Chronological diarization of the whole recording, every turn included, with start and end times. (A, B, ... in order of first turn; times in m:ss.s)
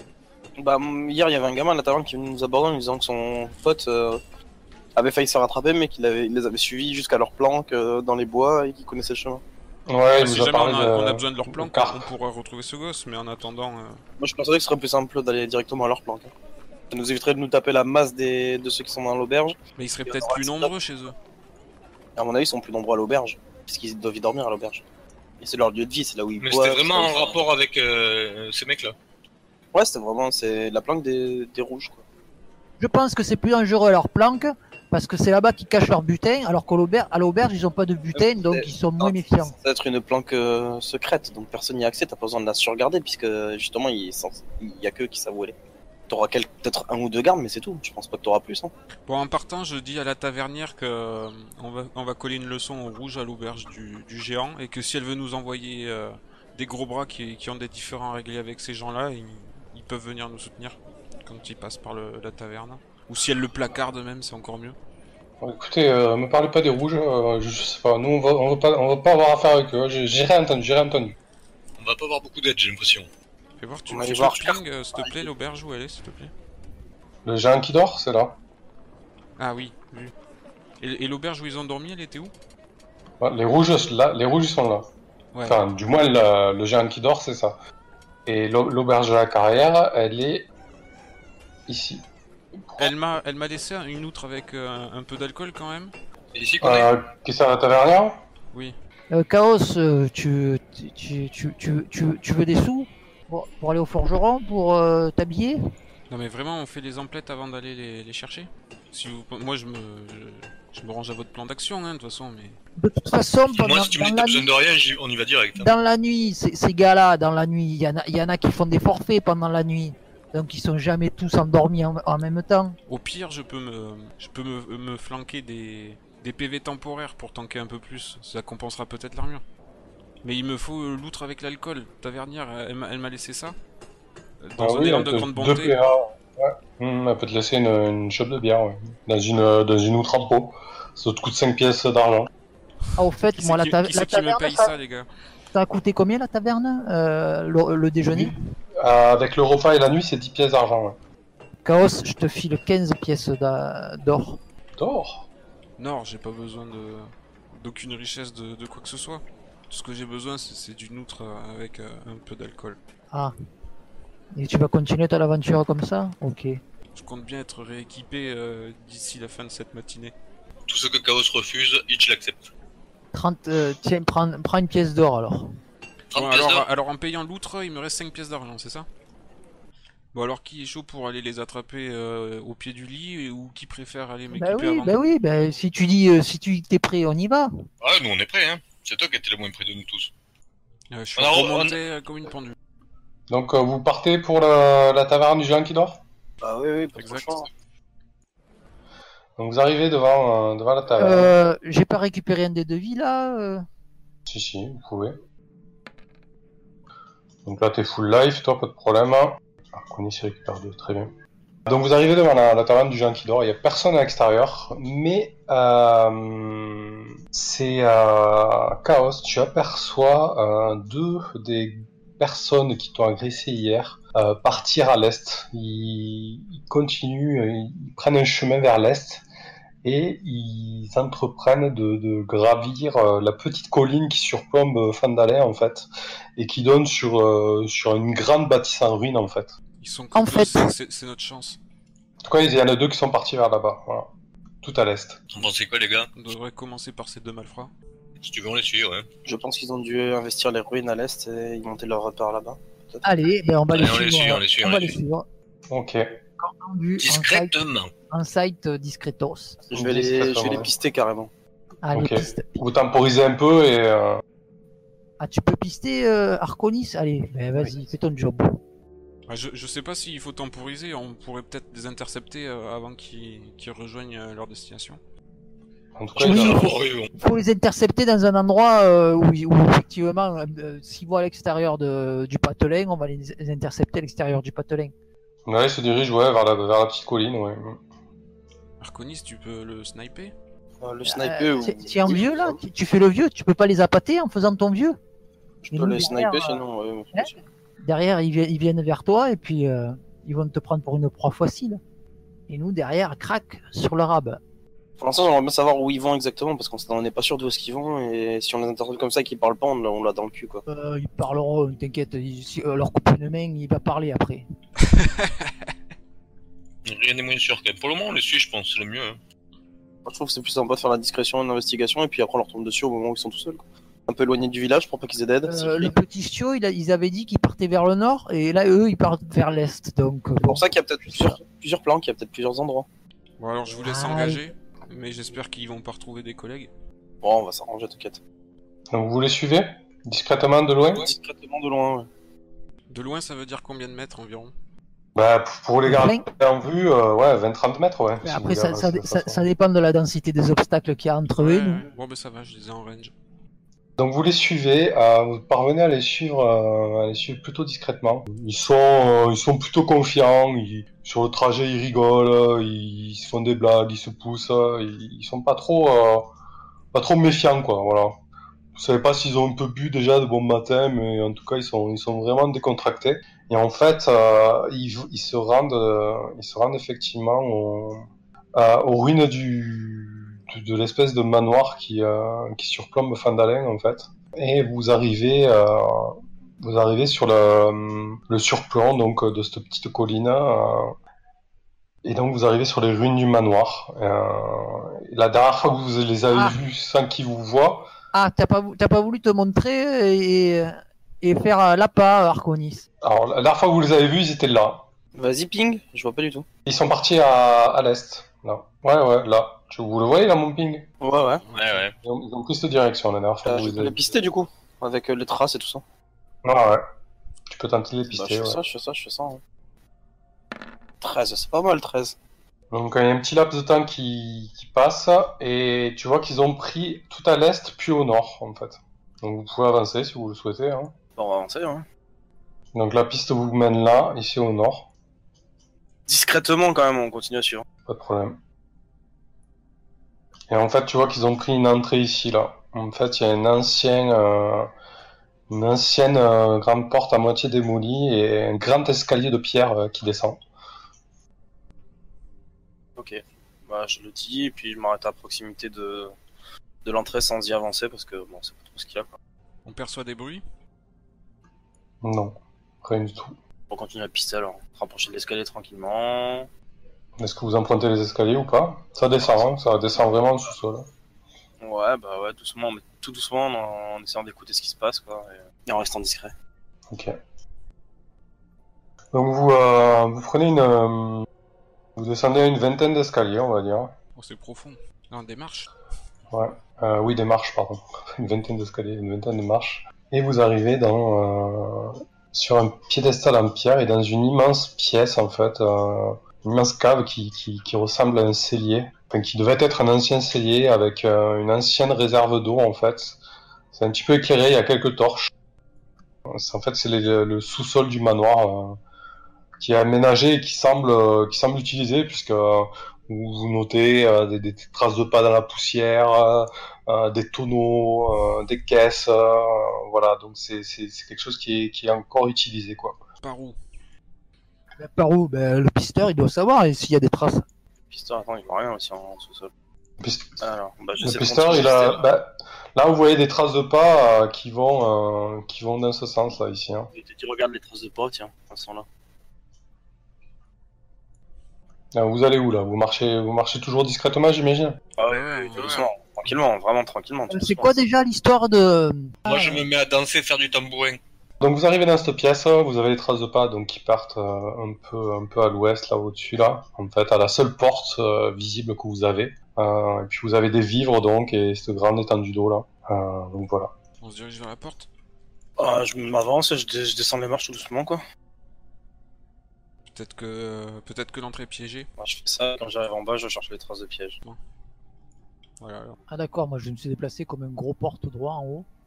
0:00.6-0:04.2 A
0:05.0-0:09.4 A
0:09.9-0:12.0 B
0:10.1-0:14.0 C
0:14.2-0:16.3 A
0:16.9-0:20.7 A
0:19.8-0:21.2 C
0:22.2-0:24.8 A
0:25.4-0:27.4 A
0:26.4-0:29.0 D
0:29.7-0:32.0 A
0:32.8-0:39.5 E
0:38.1-0:45.6 A
0:46.1-0:48.7 A
0:49.1-1:04.8 C
1:05.4-1:11.2 B
1:11.8-1:13.1 D
1:13.6-1:16.3 C
1:13.9-1:15.3 A
1:17.2-1:18.4 B
1:19.4-1:20.1 C
1:20.8-1:22.3 C
1:23.2-1:24.9 B
1:25.3-1:25.6 C
1:25.5-1:27.6 B
1:28.3-1:30.5 B
1:31.7-1:32.1 B
1:32.6-1:32.9 B
1:32.8-1:35.9 C
1:36.4-1:36.9 D
1:36.6-1:38.2 B
1:39.1-1:45.6 E
1:46.1-1:52.6 C
1:52.8-1:54.5 E
1:53.5-1:55.7 D
1:55.6-2:02.8 E
2:02.9-2:09.4 C
2:10.2-2:13.6 C
2:14.4-2:15.8 C
2:14.6-2:22.3 B
2:23.0-2:24.7 E
2:23.3-2:25.1 C
2:25.5-2:28.4 E
2:28.1-2:31.0 B
2:31.6-2:34.4 E
2:34.8-2:35.3 B
2:35.8-2:42.8 C
2:44.3-2:46.6 E
2:46.9-2:50.2 C
2:50.7-2:52.5 D
2:53.1-2:55.5 E
2:56.1-2:56.7 D
2:56.1-2:58.9 C
3:00.1-3:05.0 C
3:04.3-3:07.5 E
3:07.8-3:10.1 D
3:10.9-3:12.6 C
3:11.2-3:11.8 D
3:13.3-3:16.0 B
3:16.4-3:17.5 A
3:17.0-3:17.4 C
3:19.4-3:21.4 B
3:20.9-3:23.6 E
3:24.3-3:25.2 B
3:27.5-3:31.1 B
3:31.7-3:49.2 B
3:49.8-3:59.6 B
3:59.8-4:01.6 C
4:00.2-4:00.7 E
4:02.3-4:05.2 B
4:05.3-4:06.1 D
4:06.2-4:07.7 C
4:08.2-4:09.1 D
4:09.3-4:13.0 A
4:13.0-4:15.3 E
4:13.7-4:15.0 D
4:15.7-4:16.1 B
4:16.4-4:17.6 E
4:17.0-4:17.9 D
4:18.1-4:19.6 E
4:19.7-4:21.3 A
4:19.7-4:20.7 B
4:21.8-4:22.6 E
4:21.9-4:24.2 B
4:25.2-4:28.6 E
4:29.3-4:35.0 C
4:36.0-4:36.7 B
4:36.2-4:44.9 E
4:36.2-4:37.1 D
4:45.5-4:47.8 B
4:48.8-4:50.4 C
4:50.8-4:52.6 A
4:51.0-4:55.0 E
4:55.6-4:57.4 A
4:55.7-4:56.6 E
4:57.8-5:01.8 E
5:02.5-5:04.4 E
5:05.0-5:10.6 A
5:10.7-5:14.5 E
5:16.9-5:19.2 D
5:20.1-5:25.9 A
5:25.4-5:31.4 E
5:30.4-5:32.9 A
5:33.4-5:36.7 C
5:33.8-5:34.4 E
5:37.2-5:38.2 A
5:38.9-5:41.1 B
5:40.9-5:42.1 A
5:42.9-5:44.5 C
5:45.2-5:49.5 B
5:45.8-5:46.2 E
5:48.2-5:51.9 E
5:51.4-5:53.1 C
5:54.0-6:06.3 B
6:06.9-6:08.2 B
6:08.8-6:31.0 B
6:32.0-6:37.9 B
6:36.3-6:36.6 E
6:38.1-6:42.8 E
6:43.0-6:44.8 B
6:45.2-6:46.4 A
6:46.7-6:50.9 B
6:51.0-6:51.4 A
6:51.5-6:51.8 C
6:51.5-6:51.9 D
6:52.0-6:54.0 B
6:53.4-6:55.8 A
6:56.4-6:56.8 B
6:57.5-6:58.6 B
6:58.1-6:59.4 A
7:01.0-7:02.2 A
7:02.7-7:10.9 B
7:11.2-7:11.8 A
7:12.7-7:14.9 B
7:16.1-7:17.6 A
7:17.9-7:18.4 B
7:20.5-7:24.7 B
7:25.5-7:30.4 B
7:33.0-7:36.1 A
7:36.8-7:39.1 A
7:39.6-7:40.4 C
7:42.0-7:43.4 B
7:43.7-7:46.5 A
7:47.2-7:50.9 B
7:51.6-7:56.3 A
7:56.9-7:57.2 B
7:59.1-8:01.3 B
8:02.0-8:03.9 B
8:04.2-8:05.7 C
8:06.3-8:23.2 B
8:23.7-8:25.3 B
8:26.3-8:28.8 B
8:29.6-8:43.0 B
8:43.2-8:43.6 C
8:44.8-8:47.4 E
8:47.9-8:49.5 A
8:50.0-8:50.4 B
8:50.4-8:52.1 A
8:51.0-8:56.9 B
8:56.9-8:58.9 A
9:01.9-9:04.8 B
9:05.0-9:07.8 A
9:05.1-9:05.8 C
9:05.6-9:05.8 D
9:07.3-9:09.6 E
9:09.3-9:11.0 D
9:11.4-9:23.7 B
9:24.0-9:24.9 C
9:25.6-9:28.0 A
9:29.9-9:31.9 C
9:32.0-9:34.2 A
9:35.6-9:36.0 C
9:36.1-9:38.7 E